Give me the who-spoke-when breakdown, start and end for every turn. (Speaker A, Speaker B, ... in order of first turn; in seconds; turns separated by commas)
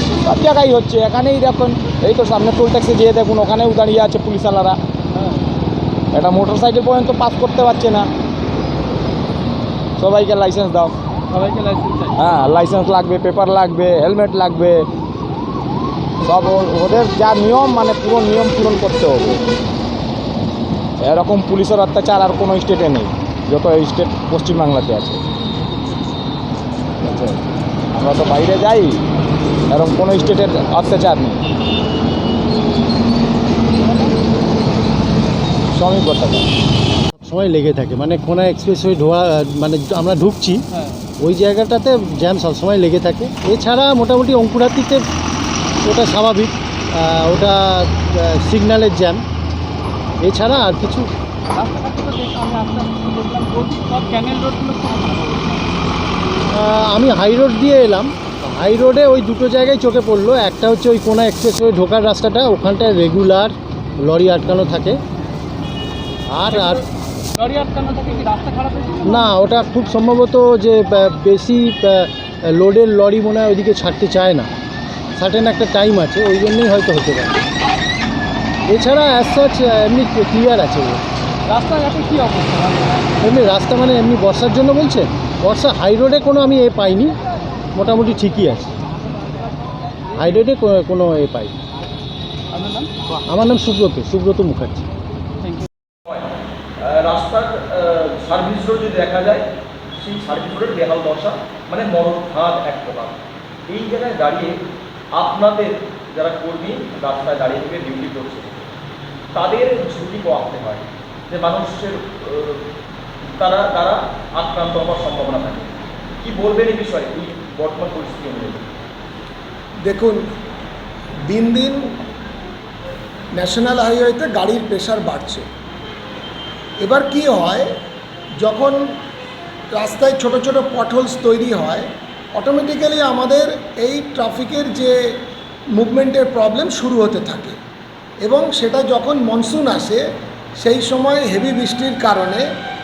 Speaker A: 0.2-4.8, Speaker A: 6.1-8.1, Speaker A: 10.0-10.9, Speaker B: 11.3-12.1, Speaker A: 12.2-14.8, Speaker A: 16.2-19.4, Speaker A: 21.0-25.2, Speaker A: 27.0-27.4, Speaker A: 27.9-29.0, Speaker A: 29.7-31.4, Speaker A: 35.7-36.5, Speaker C: 37.2-40.6, Speaker C: 41.2-45.0, Speaker C: 45.8-49.2, Speaker C: 50.2-51.1, Speaker B: 51.5-55.5, Speaker C: 56.5-65.0, Speaker C: 66.3-66.8, Speaker B: 67.3-69.3, Speaker C: 69.0-74.5, Speaker C: 75.1-77.4, Speaker C: 78.7-81.0, Speaker B: 81.5-83.0, Speaker C: 83.2-87.1, Speaker C: 87.8-88.7, Speaker C: 90.2-91.5, Speaker B: 92.5-92.9, Speaker C: 93.3-94.9, Speaker D: 96.8-99.4, Speaker D: 100.0-104.6, Speaker D: 105.1-108.6, Speaker D: 109.3-112.6, Speaker D: 113.3-118.6, Speaker E: 119.8-120.2, Speaker E: 121.2-121.9, Speaker E: 123.3-125.5, Speaker E: 126.8-127.7, Speaker E: 128.4-128.9, Speaker E: 129.7-135.0, Speaker E: 135.8-137.6, Speaker E: 138.2-140.0, Speaker E: 140.6-142.5